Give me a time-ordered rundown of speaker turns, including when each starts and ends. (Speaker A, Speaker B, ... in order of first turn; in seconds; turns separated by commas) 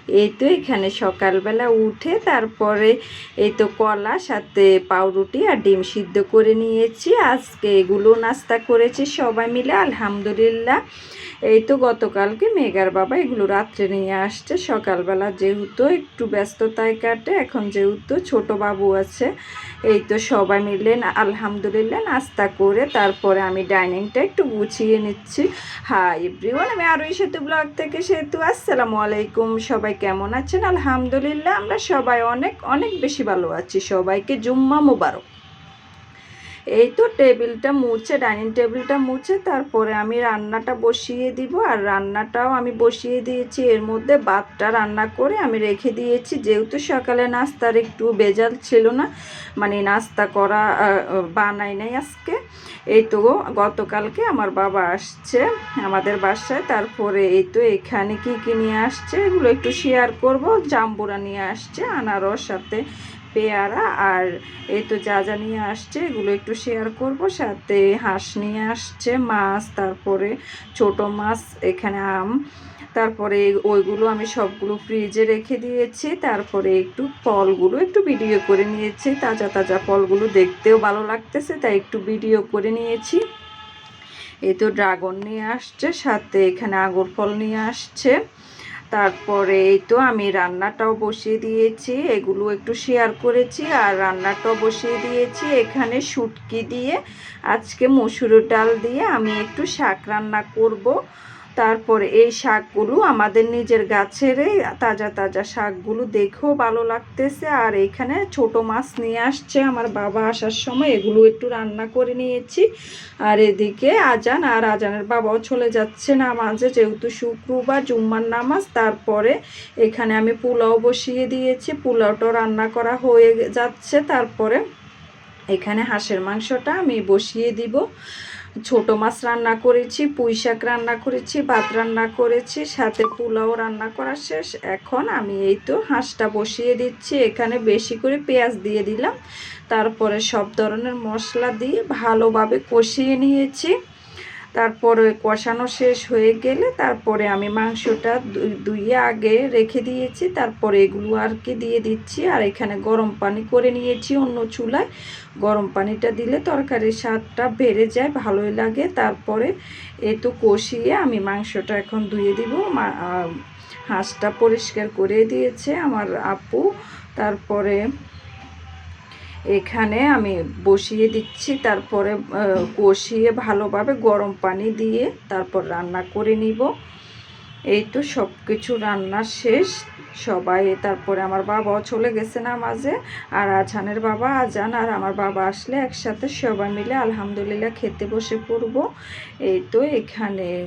Speaker A: 0.2-10.8, Speaker A: 11.5-19.3, Speaker A: 19.9-35.2, Speaker A: 36.8-49.1, Speaker A: 49.6-52.4, Speaker A: 52.9-62.8, Speaker A: 63.3-72.3, Speaker A: 73.0-83.2, Speaker A: 84.5-88.2, Speaker A: 88.9-97.0, Speaker A: 97.5-100.9, Speaker A: 101.6-112.7, Speaker A: 113.3-124.6, Speaker A: 125.5-127.8, Speaker A: 128.7-139.1, Speaker A: 139.7-143.7, Speaker A: 144.6-154.9, Speaker A: 155.4-159.5, Speaker A: 160.1-163.3, Speaker A: 163.9-166.7, Speaker A: 167.2-167.8, Speaker A: 169.6-176.7, Speaker A: 177.7-179.7, Speaker A: 180.2-188.8, Speaker A: 189.5-190.5